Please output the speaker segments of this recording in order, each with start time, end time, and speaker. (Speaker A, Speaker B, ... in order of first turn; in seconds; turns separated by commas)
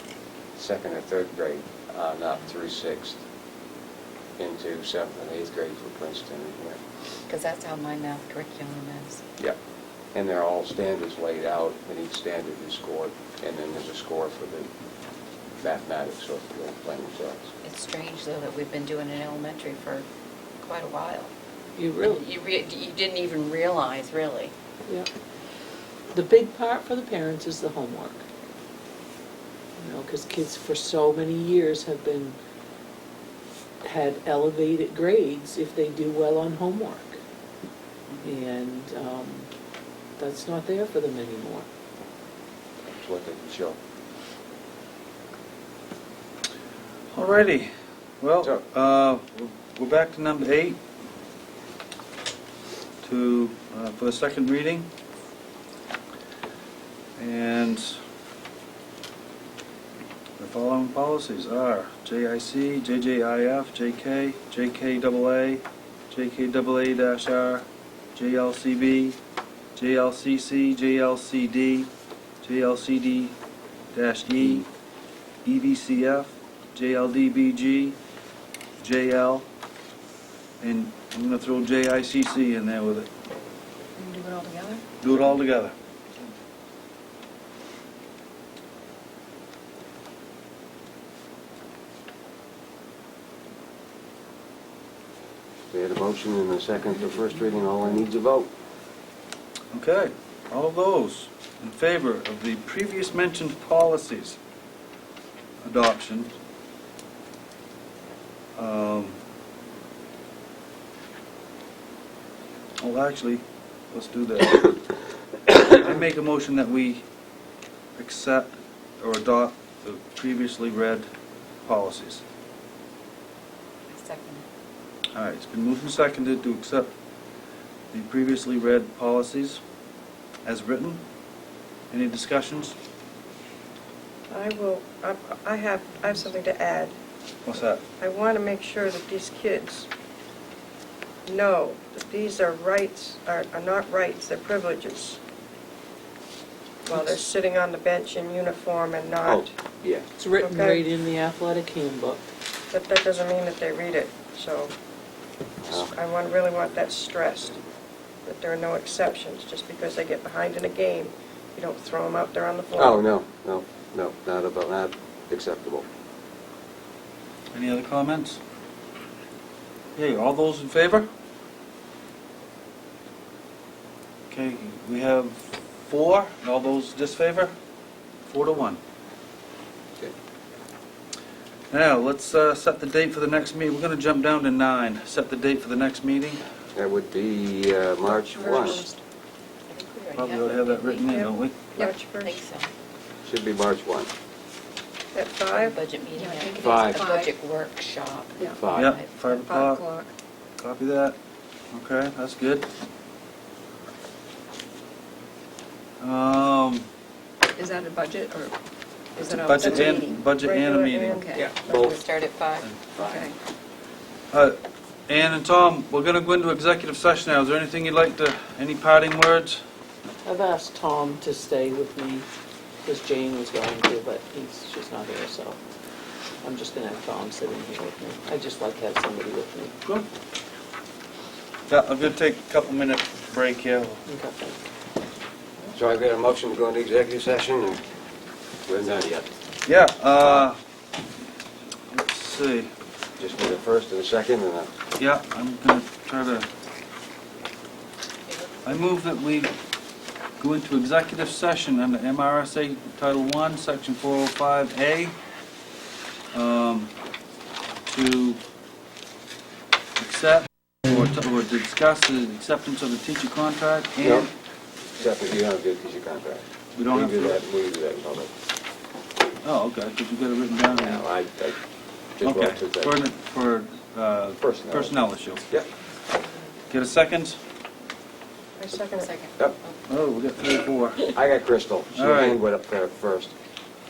Speaker A: 0.6-3.2, Speaker A: 4.4-6.8, Speaker B: 7.3-9.2, Speaker A: 10.1-14.7, Speaker A: 15.6-17.5, Speaker B: 17.6-20.1, Speaker B: 20.6-21.3, Speaker C: 21.8-22.3, Speaker B: 22.1-24.5, Speaker C: 26.1-28.2, Speaker C: 29.8-32.4, Speaker C: 33.8-37.2, Speaker C: 38.2-39.5, Speaker C: 40.2-41.7, Speaker A: 42.8-43.8, Speaker D: 47.1-50.8, Speaker D: 53.0-54.9, Speaker D: 57.2-58.0, Speaker D: 60.4-69.2, Speaker D: 69.8-71.9, Speaker D: 72.4-73.3, Speaker D: 73.9-74.7, Speaker D: 75.4-78.0, Speaker D: 78.8-79.5, Speaker D: 80.6-83.1, Speaker E: 84.0-84.8, Speaker D: 85.0-85.7, Speaker A: 95.7-98.5, Speaker D: 99.7-104.4, Speaker D: 105.6-106.3, Speaker D: 108.5-109.2, Speaker D: 112.8-114.8, Speaker D: 115.5-117.0, Speaker D: 118.0-121.0, Speaker D: 121.7-122.2, Speaker B: 123.9-124.5, Speaker D: 125.2-126.9, Speaker D: 127.9-129.6, Speaker D: 130.4-131.0, Speaker D: 131.9-132.7, Speaker E: 134.3-136.9, Speaker D: 137.4-137.8, Speaker E: 138.0-139.9, Speaker E: 141.2-145.2, Speaker E: 146.8-149.4, Speaker A: 149.2-150.1, Speaker C: 150.2-152.3, Speaker E: 150.4-150.8, Speaker E: 152.7-154.7, Speaker A: 155.6-155.9, Speaker E: 155.7-157.6, Speaker E: 158.2-163.0, Speaker A: 162.8-165.9, Speaker D: 167.5-168.4, Speaker D: 169.9-171.1, Speaker D: 174.3-177.5, Speaker D: 178.3-178.8, Speaker D: 181.7-186.4, Speaker A: 186.7-188.9, Speaker E: 188.3-189.0, Speaker B: 189.7-191.2, Speaker D: 190.1-191.6, Speaker E: 191.1-192.4, Speaker B: 191.8-192.7, Speaker A: 193.2-194.1, Speaker E: 195.1-195.8, Speaker B: 195.6-199.1, Speaker F: 196.2-197.3, Speaker E: 196.5-197.0, Speaker A: 196.6-197.0, Speaker A: 198.5-198.9, Speaker D: 198.7-199.8, Speaker F: 199.4-200.1, Speaker E: 199.5-199.9, Speaker D: 200.6-201.2, Speaker D: 201.7-202.7, Speaker D: 206.0-206.9, Speaker F: 207.6-208.5, Speaker F: 209.2-209.9, Speaker E: 209.2-211.5, Speaker D: 209.3-211.3, Speaker F: 211.2-211.5, Speaker A: 211.3-212.0, Speaker B: 211.6-212.7, Speaker A: 212.9-213.3, Speaker F: 213.1-213.3, Speaker D: 214.3-219.6, Speaker C: 220.2-222.3, Speaker C: 222.8-225.6, Speaker C: 226.4-229.8, Speaker D: 231.7-234.0, Speaker C: 234.1-234.6, Speaker A: 235.7-237.8, Speaker A: 238.7-239.3, Speaker D: 239.7-240.6, Speaker D: 241.9-242.7, Speaker A: 243.2-244.7, Speaker D: 245.0-246.5, Speaker B: 248.3-248.8, Speaker D: 248.6-249.5, Speaker D: 250.4-255.1, Speaker D: 256.3-256.9, Speaker D: 257.9-258.4, Speaker D: 260.0-264.3, Speaker A: 264.0-264.3, Speaker A: 265.0-268.3, Speaker D: 266.8-267.4, Speaker D: 269.4-271.0, Speaker A: 270.8-271.6, Speaker A: 272.2-273.0, Speaker D: 272.2-275.4, Speaker A: 274.4-275.0, Speaker D: 276.7-277.4, Speaker E: 278.6-279.1, Speaker B: 279.0-279.7, Speaker D: 279.9-281.1, Speaker A: 281.1-283.3, Speaker D: 281.9-282.4